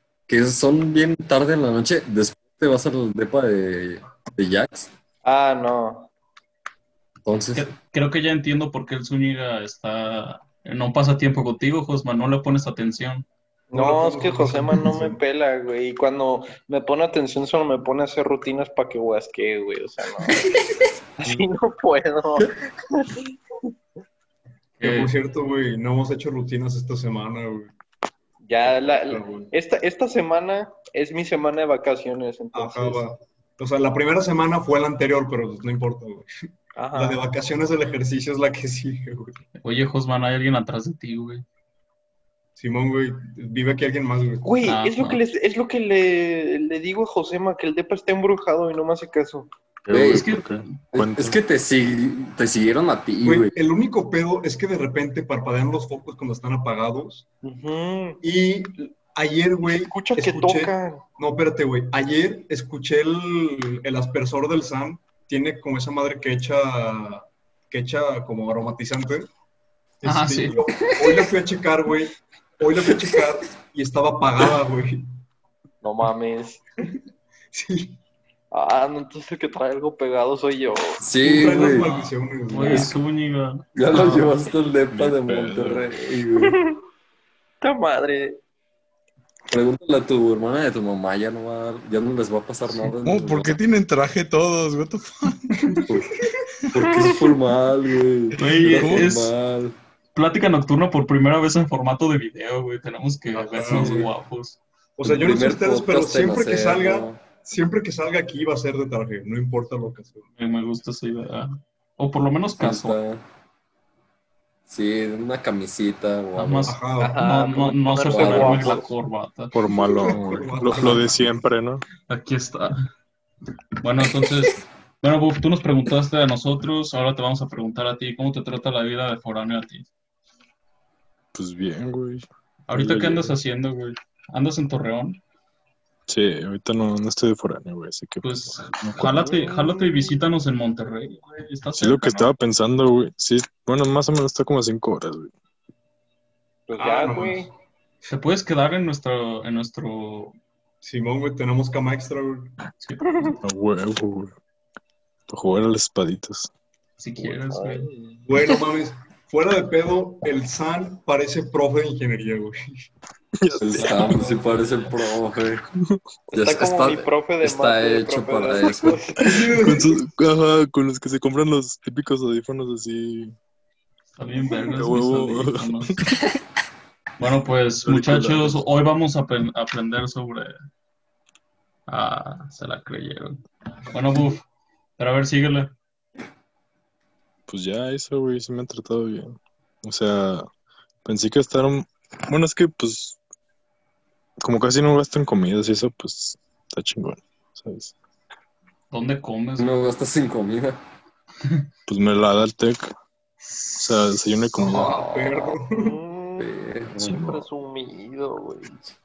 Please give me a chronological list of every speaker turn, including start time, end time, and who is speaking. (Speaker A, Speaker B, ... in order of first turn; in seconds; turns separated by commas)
Speaker A: 0.3-4.9, Speaker B: 5.2-6.1, Speaker A: 7.2-7.7, Speaker C: 7.5-13.3, Speaker D: 13.7-15.2, Speaker B: 13.7-20.5, Speaker B: 21.2-23.3, Speaker C: 24.8-25.1, Speaker D: 24.8-27.7, Speaker B: 28.4-33.0, Speaker D: 28.8-29.5, Speaker D: 32.5-36.3, Speaker B: 36.8-37.2, Speaker D: 36.9-39.4, Speaker C: 39.6-41.4, Speaker D: 42.6-44.5, Speaker B: 44.4-49.5, Speaker C: 44.6-45.2, Speaker E: 49.9-51.4, Speaker A: 49.9-50.3, Speaker C: 50.0-50.9, Speaker A: 50.9-53.5, Speaker D: 53.2-57.2, Speaker B: 57.4-58.2, Speaker D: 58.2-69.3, Speaker B: 59.8-61.0, Speaker D: 70.0-75.1, Speaker C: 70.0-70.6, Speaker A: 72.8-73.2, Speaker B: 75.8-76.6, Speaker D: 77.5-78.0, Speaker B: 78.5-81.0, Speaker A: 81.0-81.9, Speaker D: 81.2-83.0, Speaker C: 81.3-84.4, Speaker A: 82.6-82.9, Speaker A: 83.8-86.6, Speaker E: 84.9-85.9, Speaker B: 86.4-86.8, Speaker B: 87.6-88.4, Speaker A: 89.5-93.6, Speaker F: 93.0-95.8, Speaker D: 95.5-96.4, Speaker A: 96.7-99.8, Speaker B: 96.8-97.2, Speaker C: 98.4-99.3, Speaker F: 98.6-99.1, Speaker C: 100.2-104.6, Speaker D: 103.4-104.1, Speaker A: 103.6-104.1, Speaker D: 105.0-110.3, Speaker A: 105.0-107.2, Speaker C: 110.4-113.0, Speaker A: 112.5-113.2, Speaker A: 114.7-116.8, Speaker C: 116.4-119.6, Speaker D: 116.7-117.2, Speaker B: 117.0-118.9, Speaker A: 118.1-118.8, Speaker E: 119.5-121.8, Speaker D: 119.7-121.3, Speaker A: 120.1-120.5, Speaker C: 122.1-122.8, Speaker C: 123.8-129.9, Speaker E: 131.3-133.3, Speaker C: 132.7-135.2, Speaker E: 136.1-139.1, Speaker C: 138.2-142.3, Speaker B: 139.1-140.3, Speaker E: 141.8-145.3, Speaker B: 146.7-147.5, Speaker D: 146.8-147.5, Speaker C: 148.1-150.4, Speaker D: 150.8-152.6, Speaker C: 152.8-153.3, Speaker B: 153.1-153.3, Speaker E: 153.4-154.3, Speaker E: 155.3-156.5, Speaker C: 157.0-157.9, Speaker B: 157.5-157.9, Speaker D: 158.3-162.6, Speaker E: 163.4-164.2, Speaker A: 163.6-165.6, Speaker C: 163.8-164.9, Speaker B: 166.3-169.2, Speaker A: 166.3-169.0, Speaker D: 169.2-170.0, Speaker E: 169.2-173.3, Speaker C: 174.1-175.9, Speaker E: 174.5-176.4, Speaker C: 177.2-180.5, Speaker E: 177.8-178.7, Speaker C: 181.9-184.4, Speaker C: 185.0-185.7, Speaker E: 187.5-190.5, Speaker E: 191.1-193.2, Speaker E: 194.4-197.9, Speaker C: 198.9-199.7, Speaker A: 199.6-200.8, Speaker E: 201.9-202.9, Speaker C: 203.5-204.1, Speaker E: 203.8-205.0, Speaker A: 204.6-205.6, Speaker D: 204.6-205.9, Speaker B: 205.7-206.5, Speaker A: 206.4-207.2, Speaker E: 207.0-207.4, Speaker B: 207.1-208.8